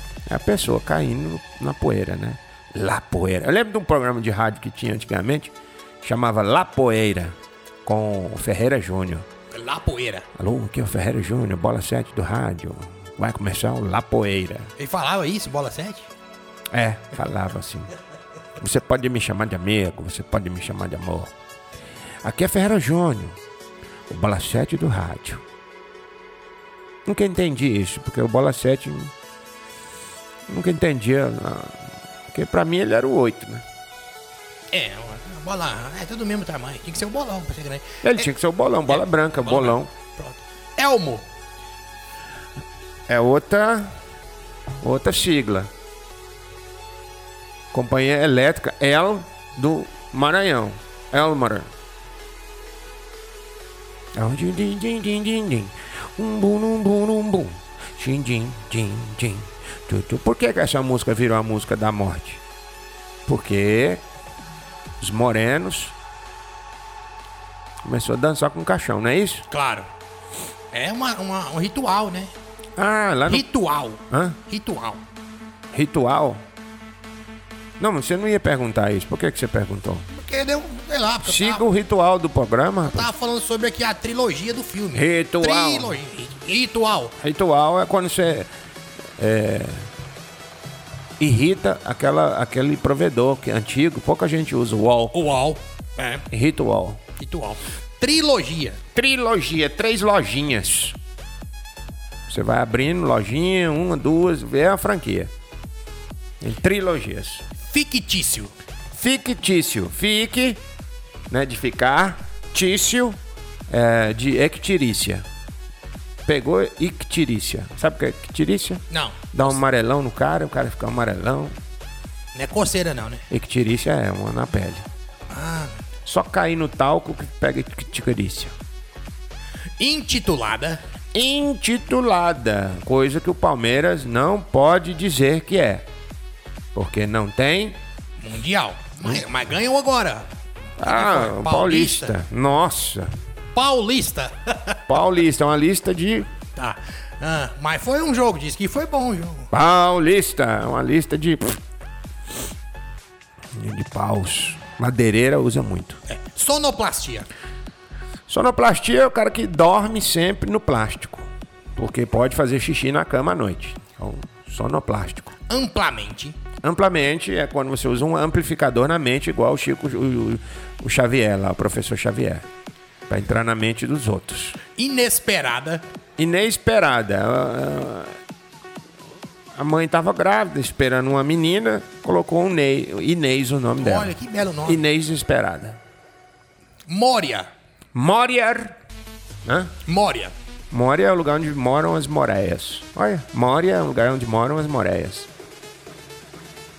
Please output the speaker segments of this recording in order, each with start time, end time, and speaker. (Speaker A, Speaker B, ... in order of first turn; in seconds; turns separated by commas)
Speaker A: 0.2-9.2, Speaker B: 9.5-10.3, Speaker A: 10.3-14.7, Speaker B: 14.8-16.1, Speaker A: 16.7-17.9, Speaker A: 18.6-21.3, Speaker A: 22.2-23.4, Speaker A: 24.1-25.4, Speaker A: 27.1-29.1, Speaker A: 30.5-33.6, Speaker B: 34.7-38.3, Speaker A: 38.0-39.9, Speaker B: 38.9-41.2, Speaker A: 43.1-44.0, Speaker A: 44.8-45.7, Speaker A: 47.7-51.7, Speaker A: 54.1-62.4, Speaker A: 63.2-64.0, Speaker A: 65.0-65.9, Speaker A: 67.8-69.5, Speaker B: 69.5-69.9, Speaker B: 70.7-72.3, Speaker A: 72.8-73.5, Speaker B: 73.3-75.0, Speaker A: 74.1-74.4, Speaker A: 75.7-76.4, Speaker A: 77.8-80.0, Speaker B: 80.1-81.7, Speaker A: 81.2-83.1, Speaker B: 82.8-87.1, Speaker A: 84.9-85.9, Speaker A: 87.2-88.5, Speaker A: 89.2-89.9, Speaker A: 91.2-95.2, Speaker B: 95.1-96.2, Speaker A: 96.3-97.0, Speaker B: 97.2-98.8, Speaker A: 98.9-101.0, Speaker A: 102.3-105.3, Speaker A: 106.4-107.4, Speaker B: 107.6-108.5, Speaker A: 108.9-110.6, Speaker A: 111.3-113.2, Speaker A: 113.7-115.2, Speaker A: 116.2-121.5, Speaker B: 118.9-119.6, Speaker B: 122.3-123.2, Speaker A: 123.3-124.8, Speaker B: 125.3-125.8, Speaker A: 126.0-128.5, Speaker B: 129.8-130.8, Speaker A: 131.1-135.8, Speaker A: 136.7-137.8, Speaker B: 138.2-140.3, Speaker A: 140.8-143.1, Speaker B: 140.8-142.1, Speaker B: 143.5-144.8, Speaker A: 144.9-146.3, Speaker B: 146.6-149.5, Speaker A: 149.5-151.6, Speaker A: 153.5-156.0, Speaker B: 156.1-157.3, Speaker A: 158.3-165.3, Speaker B: 165.5-166.4, Speaker A: 166.6-172.4, Speaker A: 173.1-174.6, Speaker B: 174.8-175.8, Speaker A: 176.2-178.2, Speaker A: 179.5-184.1, Speaker B: 183.8-184.8, Speaker A: 184.6-185.8, Speaker B: 186.9-187.5, Speaker A: 187.9-188.8, Speaker A: 189.4-189.7, Speaker B: 189.8-190.3, Speaker A: 190.7-195.3